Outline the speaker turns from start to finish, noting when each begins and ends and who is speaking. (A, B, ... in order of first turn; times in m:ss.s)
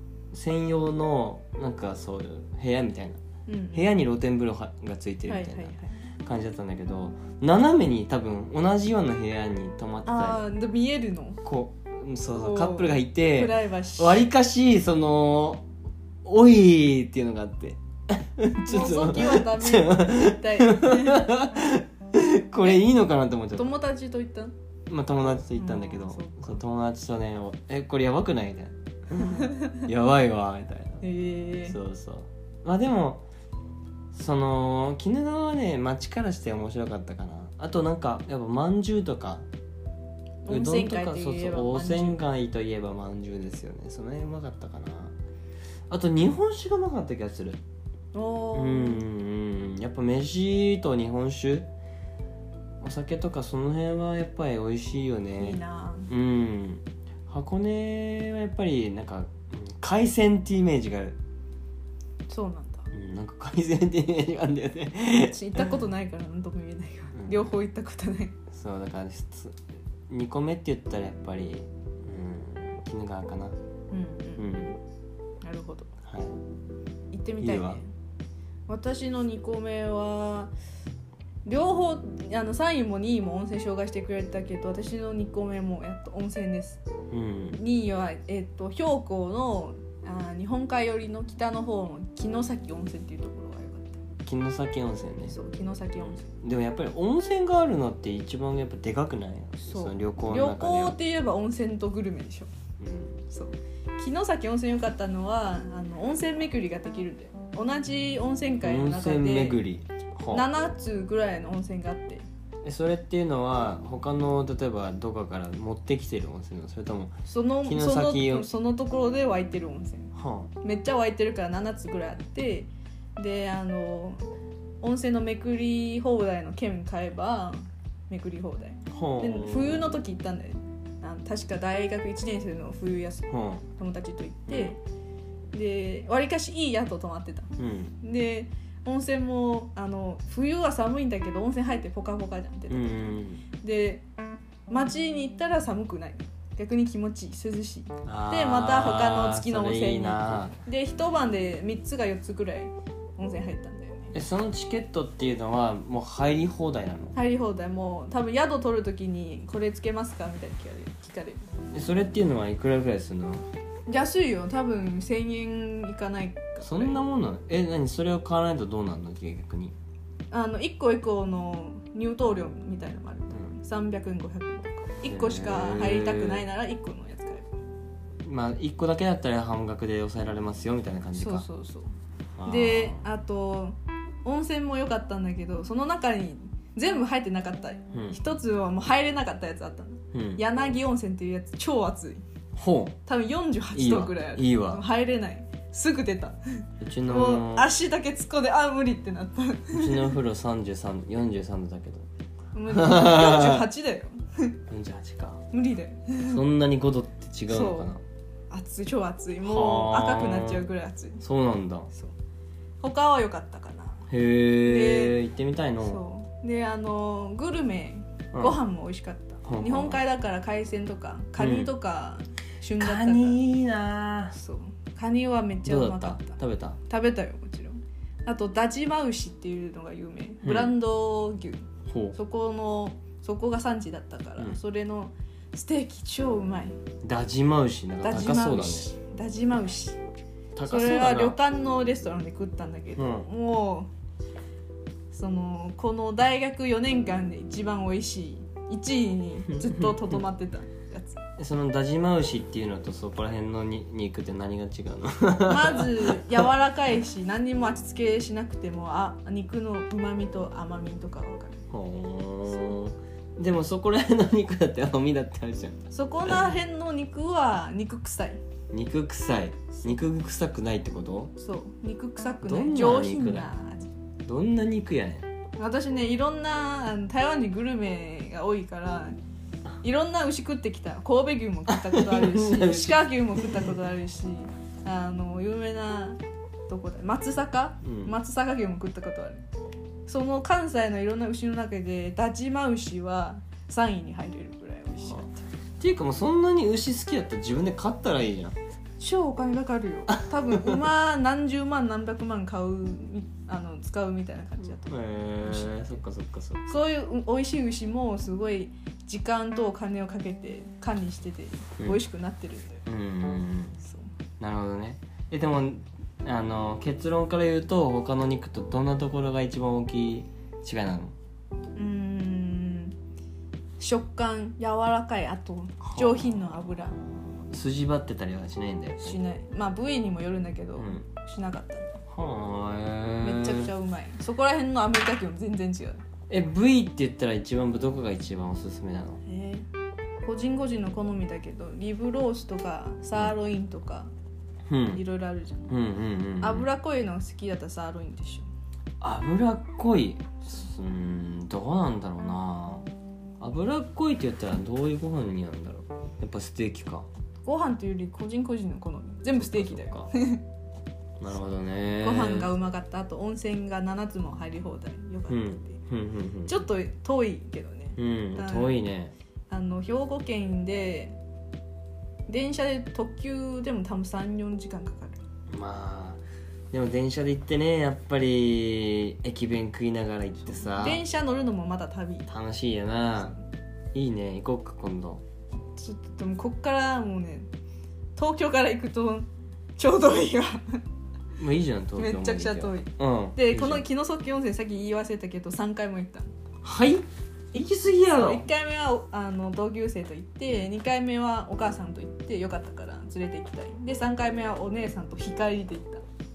0:00.3-0:03.2 A
0:03.5-0:03.9 B
0:03.7-0:10.4 A
0:05.3-0:06.0 B
0:10.1-0:11.4 B
0:11.4-0:15.6 A
0:12.3-0:14.3 B
0:16.2-0:23.8 A
0:18.6-0:21.3 B
0:23.6-0:24.5 B
0:24.9-0:31.0 A
0:25.6-0:26.6 B
0:29.2-0:29.8 B
0:31.0-0:31.8 B
0:31.6-0:33.2 A
0:34.1-0:39.5 A
0:40.4-0:42.2 B
0:40.5-0:45.2 A
0:45.9-0:47.6 A
0:48.1-0:49.0 B
0:48.5-0:51.7 A
0:52.8-1:01.2 A
0:55.4-0:56.1 B
1:02.3-1:02.9 B
1:02.9-1:05.7 A
1:05.3-1:08.4 B
1:07.1-1:07.5 A
1:08.5-1:13.6 A
1:13.9-1:14.8 B
1:14.4-1:14.8 A
1:15.4-1:15.9 B
1:16.0-1:16.4 A
1:17.1-1:17.9 B
1:17.4-1:17.8 A
1:18.7-1:20.5 B
1:21.4-1:26.8 B
1:27.1-1:27.6 A
1:27.5-1:34.0 B
1:34.2-1:35.4 A
1:35.3-1:36.3 B
1:36.0-1:41.0 A
1:39.6-1:42.5 B
1:42.8-1:43.2 A
1:43.3-1:49.6 B
1:48.6-1:50.4 A
1:50.3-1:52.2 B
1:52.6-1:58.5 A
1:57.3-2:04.2 B
2:00.1-2:00.5 A
2:04.8-2:14.8 B
2:08.9-2:10.0 A
2:13.3-2:13.6 A
2:14.5-2:14.8 A
2:15.5-2:24.0 B
2:17.6-2:17.9 A
2:22.7-2:23.4 A
2:24.7-2:34.1 B
2:28.0-2:30.6 A
2:34.1-2:37.1 A
2:37.1-2:41.4 B
2:41.7-2:43.4 A
2:43.9-2:47.0 B
2:46.6-2:49.8 A
2:50.3-2:57.5 B
2:55.1-2:56.5 A
2:58.2-3:01.4 A
3:01.1-3:01.9 B
3:02.4-3:03.0 A
3:02.4-3:12.2 B
3:07.9-3:08.2 A
3:10.1-3:10.4 A
3:12.6-3:13.0 A
3:13.1-3:20.1 B
3:13.7-3:14.8 A
3:16.8-3:17.7 A
3:19.7-3:22.1 A
3:22.5-3:24.6 B
3:22.7-3:23.7 A
3:24.7-3:25.4 A
3:25.5-3:26.4 B
3:26.3-3:28.0 A
3:27.5-3:27.9 B
3:28.5-3:31.2 B
3:29.4-3:30.7 A
3:31.2-3:31.9 A
3:32.8-3:34.0 B
3:34.1-3:36.0 A
3:34.6-3:35.2 B
3:35.8-3:43.4 B
3:38.3-3:38.6 A
3:39.4-3:40.0 A
3:41.4-3:41.7 A
3:42.8-3:44.4 A
3:44.4-3:56.8 B
3:45.6-3:46.8 A
3:50.4-3:50.7 A
3:51.9-3:52.2 A
3:57.0-3:58.9 A
3:58.0-4:00.0 B
4:00.6-4:01.4 A
4:00.6-4:03.9 B
4:03.0-4:03.3 A
4:05.1-4:11.2 B
4:09.5-4:10.2 A
4:11.4-4:16.5 A
4:15.4-4:21.6 B
4:21.7-4:26.5 A
4:25.9-4:28.4 B
4:28.7-4:31.3 A
4:31.4-4:33.9 B
4:32.4-4:33.5 A
4:34.2-4:35.3 A
4:35.6-4:39.2 B
4:39.8-4:49.5 B
4:41.7-4:43.7 A
4:47.8-4:48.1 A
4:50.1-4:55.4 B
4:55.8-4:58.6 A
4:59.0-5:05.8 B
5:00.5-5:00.8 A
5:04.9-5:06.8 A
5:06.7-5:12.8 B
5:12.9-5:13.8 A
5:13.8-5:14.1 B
5:14.4-5:21.1 A
5:21.8-5:23.0 B
5:23.8-5:27.0 B
5:25.8-5:29.2 A
5:29.0-5:32.0 B
5:30.8-5:31.0 A
5:32.1-5:33.7 A
5:33.2-5:36.0 B
5:36.3-5:39.2 A
5:39.2-5:39.7 B
5:40.2-5:44.1 B
5:44.7-5:45.0 A
5:44.9-5:45.7 B
5:45.7-5:46.7 A
5:46.4-5:48.5 B
5:49.0-5:52.9 A
5:53.4-5:57.1 A
5:57.4-6:00.4 B
5:59.4-6:00.1 A
6:01.2-6:02.5 A
6:02.0-6:05.8 B
6:05.3-6:06.6 A
6:06.5-6:08.8 B
6:08.0-6:09.1 A
6:09.5-6:11.2 B
6:12.3-6:15.2 B
6:15.5-6:21.0 A
6:20.5-6:22.3 B
6:22.3-6:23.4 A
6:23.9-6:25.2 A
6:25.8-6:27.5 B
6:28.2-6:30.8 B
6:31.4-6:33.9 A
6:32.0-6:36.3 B
6:36.6-6:38.5 A
6:38.1-6:46.0 B